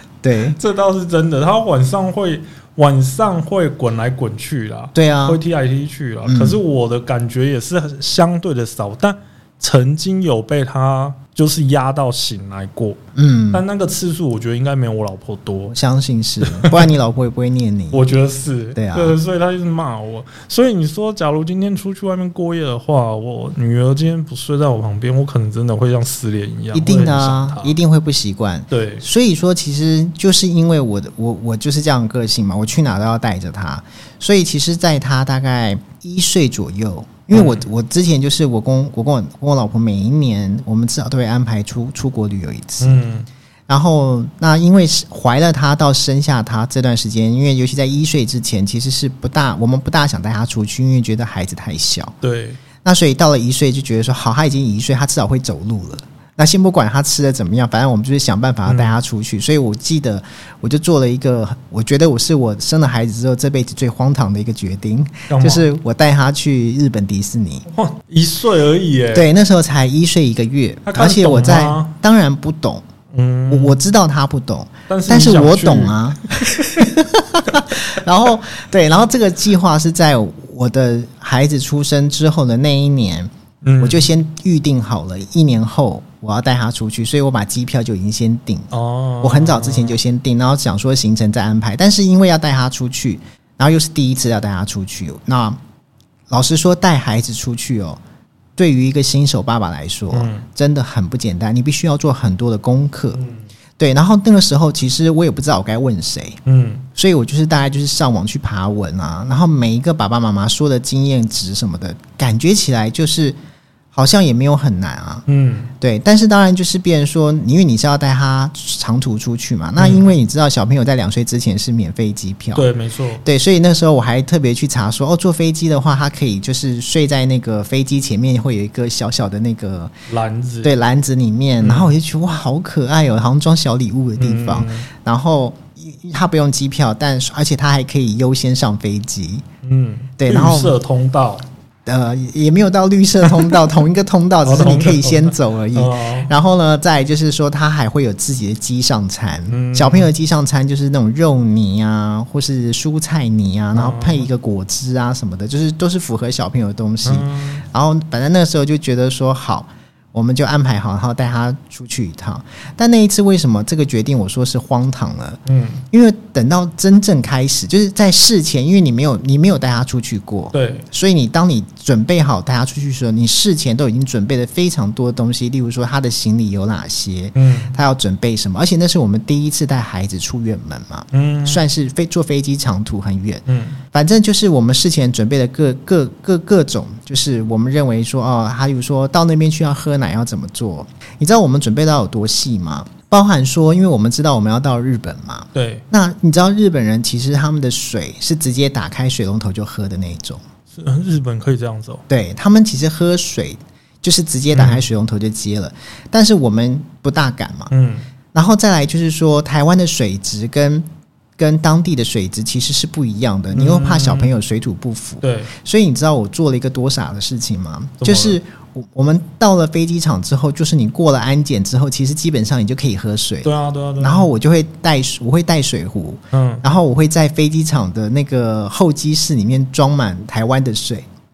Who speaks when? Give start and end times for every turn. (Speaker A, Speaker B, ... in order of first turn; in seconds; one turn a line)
Speaker A: 0.2-0.6
Speaker B: 0.6-13.0
Speaker A: 5.0-5.4
Speaker A: 6.2-6.6
Speaker A: 13.2-13.6
Speaker B: 13.5-15.8
Speaker A: 15.7-18.0
Speaker B: 16.4-16.9
Speaker B: 17.9-27.8
Speaker A: 18.8-19.2
Speaker A: 26.7-43.0
Speaker B: 28.7-29.1
Speaker B: 37.3-37.6
Speaker B: 42.8-43.3
Speaker A: 43.7-52.1
Speaker B: 52.2-52.6
Speaker A: 52.8-67.7
Speaker B: 58.7-59.0
Speaker B: 65.3-65.7
Speaker B: 67.7-69.3
Speaker A: 69.1-72.8
Speaker B: 70.8-72.0
Speaker B: 73.1-73.9
Speaker A: 73.5-95.6
Speaker B: 74.9-76.9
Speaker B: 83.6-84.1
Speaker B: 88.7-90.0
Speaker A: 96.3-98.0
Speaker A: 98.6-103.2
Speaker B: 100.1-100.5
Speaker B: 103.1-103.5
Speaker A: 103.8-106.4
Speaker B: 106.5-106.9
Speaker A: 107.0-113.4
Speaker A: 113.9-115.2
Speaker B: 115.3-115.7
Speaker A: 115.8-122.7
Speaker B: 119.8-120.1
Speaker B: 122.5-123.2
Speaker A: 123.2-129.9
Speaker B: 130.1-130.7
Speaker A: 130.6-139.4
Speaker B: 131.6-131.9
Speaker B: 134.2-134.9
Speaker B: 139.6-141.5
Speaker A: 140.2-140.8
Speaker A: 141.9-165.4
Speaker B: 144.4-146.3
Speaker B: 149.5-150.1
Speaker B: 153.7-154.3
Speaker B: 157.0-157.6
Speaker B: 165.5-165.8
Speaker A: 165.9-200.4
Speaker B: 170.5-170.9
Speaker B: 177.3-177.8
Speaker B: 181.1-181.6
Speaker B: 183.5-183.8
Speaker B: 195.5-195.8
Speaker B: 200.7-202.0
Speaker A: 202.1-207.7
Speaker B: 204.5-204.8
Speaker B: 207.7-208.1
Speaker A: 208.3-210.9
Speaker A: 211.4-231.1
Speaker B: 213.5-214.3
Speaker B: 215.2-215.5
Speaker B: 218.0-218.4
Speaker B: 223.4-224.3
Speaker B: 226.3-226.6